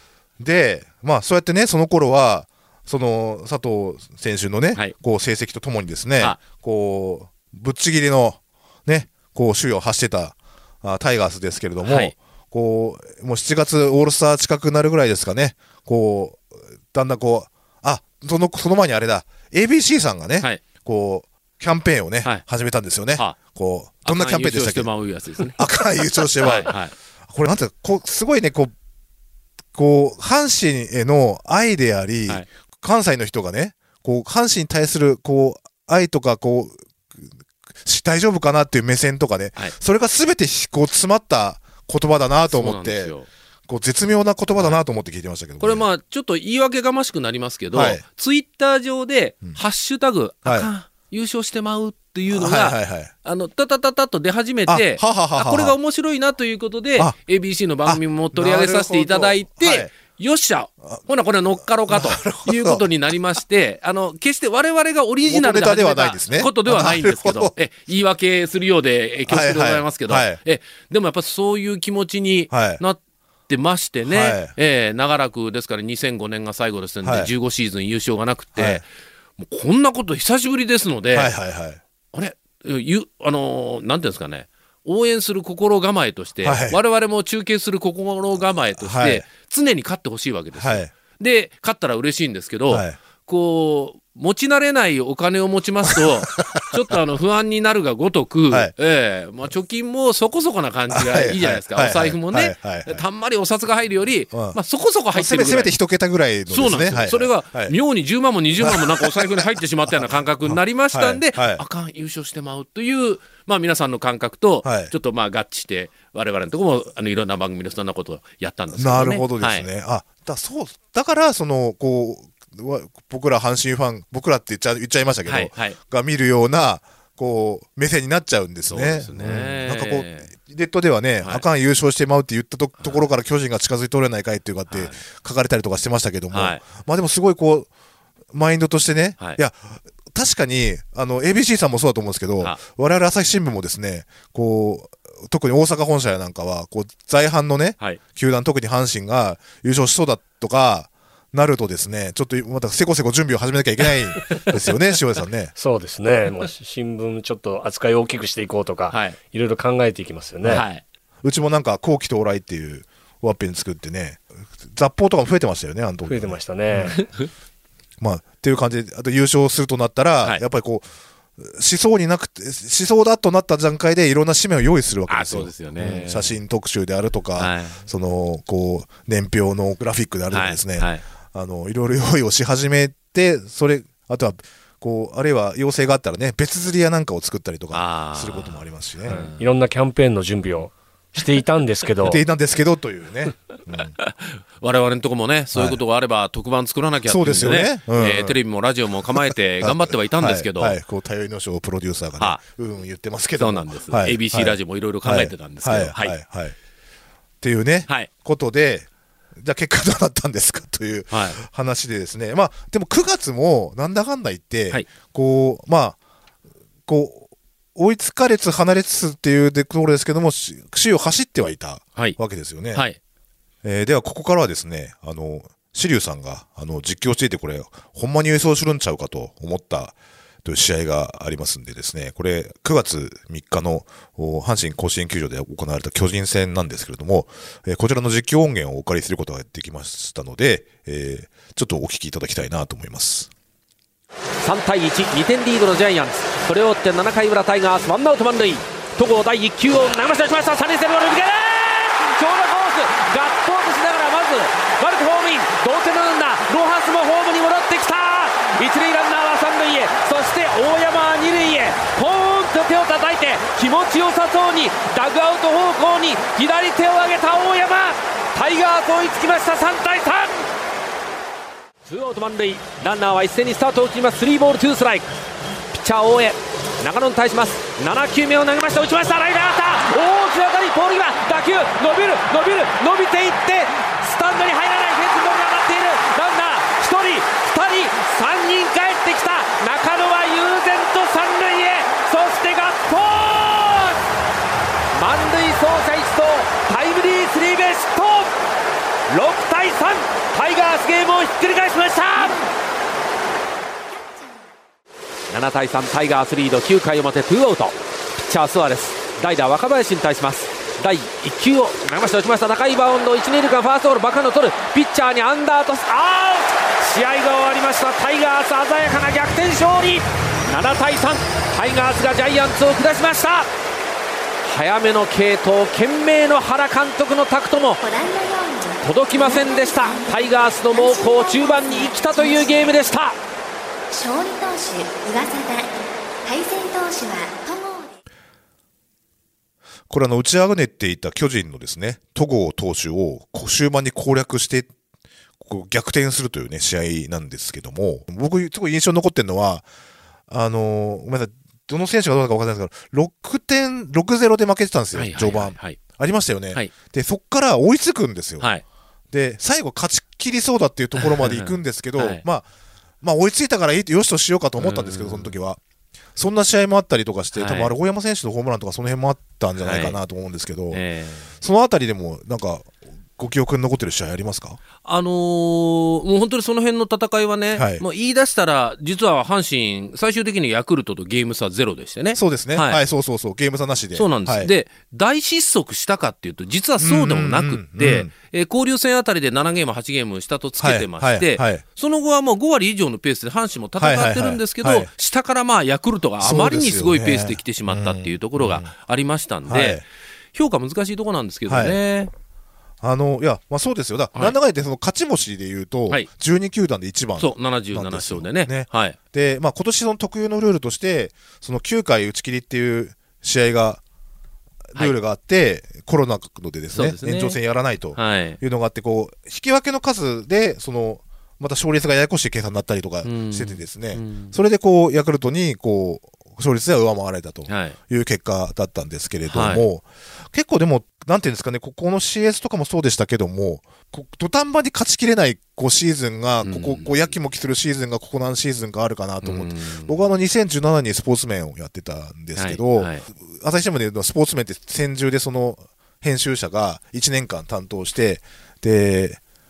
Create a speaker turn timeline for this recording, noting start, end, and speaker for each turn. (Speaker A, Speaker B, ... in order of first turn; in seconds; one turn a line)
Speaker A: 0.4-26.7
Speaker B: 11.8-12.1
Speaker B: 24.0-25.6
Speaker B: 26.4-26.9
Speaker A: 27.3-28.7
Speaker A: 29.7-43.1
Speaker B: 42.5-43.3
Speaker A: 43.7-45.8
Speaker B: 45.6-78.8
Speaker A: 47.7-48.0
Speaker A: 52.3-53.1
Speaker A: 54.7-55.8
Speaker A: 57.8-59.9
Speaker A: 61.9-62.8
Speaker A: 65.2-67.5
Speaker A: 69.3-70.4
Speaker A: 72.5-72.8
Speaker A: 74.0-74.5
Speaker A: 77.0-77.3
Speaker A: 78.5-78.8
Speaker B: 79.4-81.3
Speaker A: 81.1-81.8
Speaker B: 82.1-105.7
Speaker A: 86.4-86.8
Speaker A: 88.8-89.2
Speaker A: 90.5-90.9
Speaker A: 92.7-93.0
Speaker A: 95.9-96.7
Speaker A: 100.9-103.0
Speaker A: 104.3-104.6
Speaker A: 105.1-107.7
Speaker B: 106.5-119.7
Speaker A: 108.6-111.6
Speaker A: 114.6-114.9
Speaker A: 118.7-137.7
Speaker B: 125.2-125.8
Speaker B: 128.7-130.3
Speaker B: 134.7-135.0
Speaker B: 136.3-136.6
Speaker A: 138.3-155.5
Speaker C: 155.6-160.6
Speaker B: 158.9-159.2
Speaker B: 160.4-160.8
Speaker A: 161.2-166.8
Speaker C: 166.1-167.1
Speaker B: 167.0-167.3
Speaker A: 168.0-170.9
Speaker A: 171.4-189.2
Speaker B: 175.1-176.4
Speaker B: 177.4-177.8
Speaker B: 180.3-181.0
Speaker B: 187.7-189.4
Speaker C: 189.1-192.2
Speaker A: 192.0-193.9
Speaker B: 194.0-200.8
Speaker A: 195.5-195.8
Speaker A: 197.1-198.3
Speaker A: 199.6-206.5
Speaker B: 203.4-206.2
Speaker A: 207.4-216.0
Speaker B: 211.1-211.4
Speaker A: 216.9-222.8
Speaker B: 222.7-223.0
Speaker A: 223.6-243.3
Speaker D: 244.4-270.4
Speaker D: 271.9-275.1
Speaker D: 275.7-294.0
Speaker D: 294.9-298.3
Speaker D: 299.1-302.4
Speaker E: 303.9-304.5
Speaker D: 305.3-323.5
Speaker D: 324.4-327.8
Speaker E: 327.8-332.9
Speaker D: 328.8-333.1
Speaker E: 333.9-338.0
Speaker A: 339.9-344.7
Speaker A: 345.4-349.6
Speaker A: 350.3-358.5
Speaker B: 354.9-355.8
Speaker A: 359.1-362.5
Speaker B: 361.0-362.2
Speaker A: 363.0-365.6
Speaker B: 364.6-365.4
Speaker A: 366.1-370.8
Speaker B: 367.3-367.7
Speaker B: 369.6-370.0
Speaker B: 370.7-371.3
Speaker A: 371.4-374.6
Speaker B: 374.8-382.8
Speaker A: 377.5-377.8
Speaker A: 382.1-384.5
Speaker B: 383.9-402.1
Speaker A: 386.8-388.1
Speaker A: 390.6-391.6
Speaker A: 393.8-394.9
Speaker A: 396.2-398.7
Speaker A: 399.5-399.8
Speaker A: 401.5-401.8
Speaker A: 402.8-413.8
Speaker B: 407.2-409.0
Speaker A: 414.7-449.2
Speaker B: 416.7-417.4
Speaker B: 417.9-418.4
Speaker B: 423.0-424.3
Speaker B: 427.5-427.8
Speaker B: 429.3-429.6
Speaker B: 436.4-437.1
Speaker B: 439.2-439.9
Speaker B: 442.4-443.0